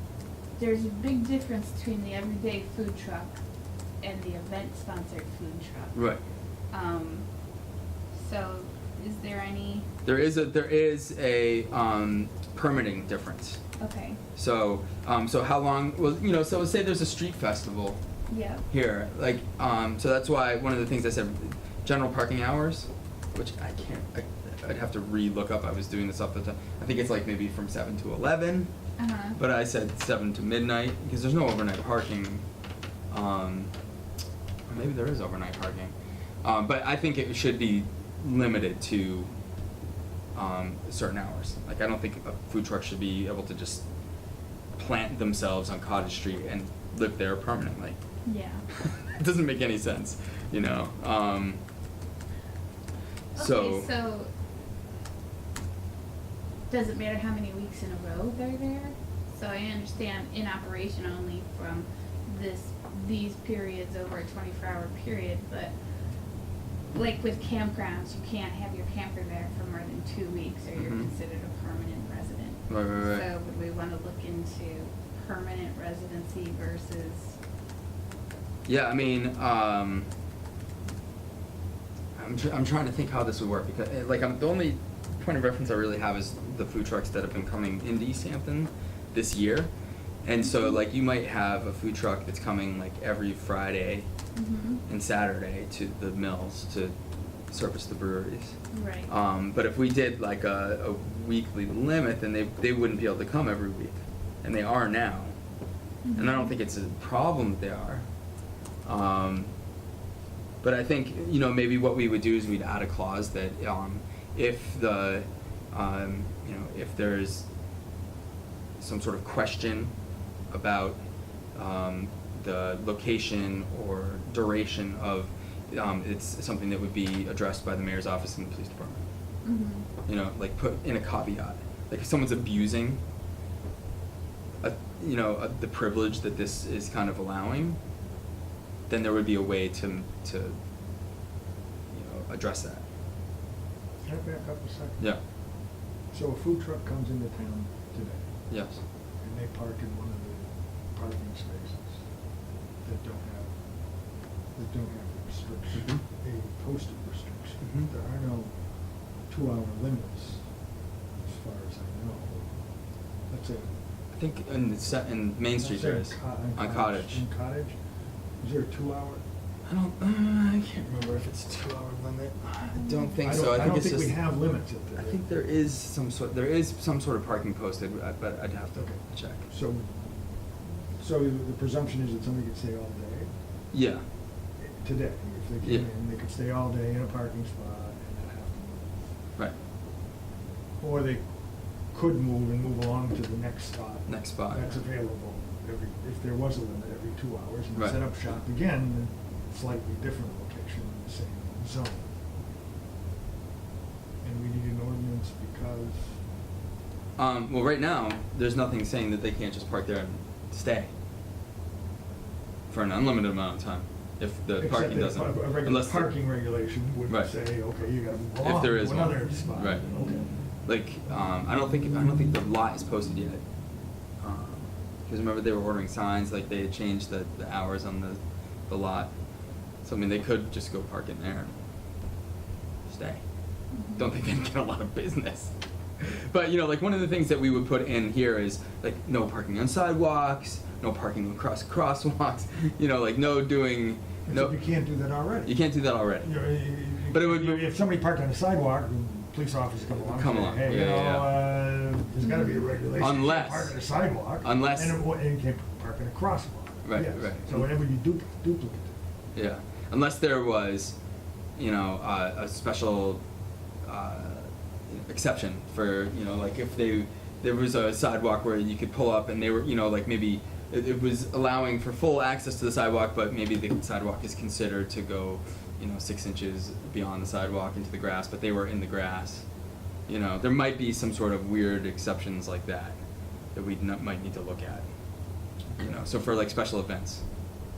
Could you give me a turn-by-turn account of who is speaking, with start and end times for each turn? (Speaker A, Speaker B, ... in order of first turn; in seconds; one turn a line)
Speaker A: 0.6-3.4
Speaker A: 4.0-6.1
Speaker B: 5.9-6.2
Speaker A: 6.7-7.3
Speaker A: 8.1-9.9
Speaker B: 10.0-13.6
Speaker A: 13.8-14.2
Speaker B: 14.3-18.0
Speaker A: 18.3-18.6
Speaker B: 18.7-28.7
Speaker A: 29.0-29.4
Speaker B: 29.4-32.4
Speaker B: 33.1-33.7
Speaker B: 34.7-39.3
Speaker B: 40.4-43.8
Speaker B: 44.8-48.0
Speaker A: 48.2-48.6
Speaker B: 48.7-51.6
Speaker A: 53.4-54.3
Speaker B: 53.4-53.9
Speaker A: 56.7-65.7
Speaker A: 66.9-77.4
Speaker B: 70.8-71.1
Speaker B: 72.7-73.3
Speaker B: 78.7-80.1
Speaker B: 82.2-89.7
Speaker B: 90.2-94.1
Speaker A: 90.4-90.8
Speaker A: 94.3-94.8
Speaker B: 94.9-96.9
Speaker B: 97.5-105.3
Speaker A: 98.7-99.1
Speaker A: 106.0-106.5
Speaker B: 106.2-108.0
Speaker B: 108.8-109.5
Speaker B: 110.6-117.5
Speaker B: 118.8-119.9
Speaker B: 120.5-121.0
Speaker B: 121.5-129.1
Speaker A: 129.4-129.9
Speaker B: 130.1-133.0
Speaker B: 134.6-137.8
Speaker B: 138.9-140.6
Speaker B: 141.9-142.8
Speaker C: 144.0-145.1
Speaker C: 146.1-148.3
Speaker B: 148.5-148.8
Speaker C: 149.2-152.0
Speaker C: 152.8-153.5
Speaker C: 154.5-158.6
Speaker B: 155.7-156.0
Speaker B: 157.6-157.9
Speaker C: 159.3-160.4
Speaker C: 161.2-162.5
Speaker C: 163.3-163.7
Speaker B: 164.1-167.2
Speaker C: 165.6-167.8
Speaker C: 168.4-169.2
Speaker B: 169.7-174.2
Speaker C: 170.8-172.4
Speaker A: 172.8-173.2
Speaker C: 173.2-175.2
Speaker B: 175.0-179.5
Speaker C: 178.8-180.0
Speaker C: 181.0-183.3
Speaker B: 183.7-184.0
Speaker C: 184.6-188.9
Speaker B: 185.6-185.9
Speaker C: 190.8-191.2
Speaker C: 191.9-202.1
Speaker B: 194.1-194.8
Speaker C: 204.2-206.2
Speaker B: 207.2-210.9
Speaker B: 212.7-216.1
Speaker C: 214.6-220.3
Speaker B: 218.4-219.9
Speaker B: 220.7-223.4
Speaker B: 224.2-229.1
Speaker B: 229.8-231.5
Speaker B: 232.9-233.2
Speaker A: 233.7-234.1
Speaker B: 233.9-244.6
Speaker C: 244.3-245.6
Speaker B: 245.4-246.3
Speaker C: 246.2-259.0
Speaker B: 247.1-247.7
Speaker B: 250.0-251.5
Speaker A: 252.2-252.7
Speaker B: 253.0-255.0
Speaker B: 256.9-257.7
Speaker B: 259.4-261.0
Speaker B: 261.6-263.2
Speaker B: 263.9-279.4
Speaker B: 280.1-283.0
Speaker B: 283.6-284.9
Speaker C: 285.7-286.0
Speaker B: 285.8-287.2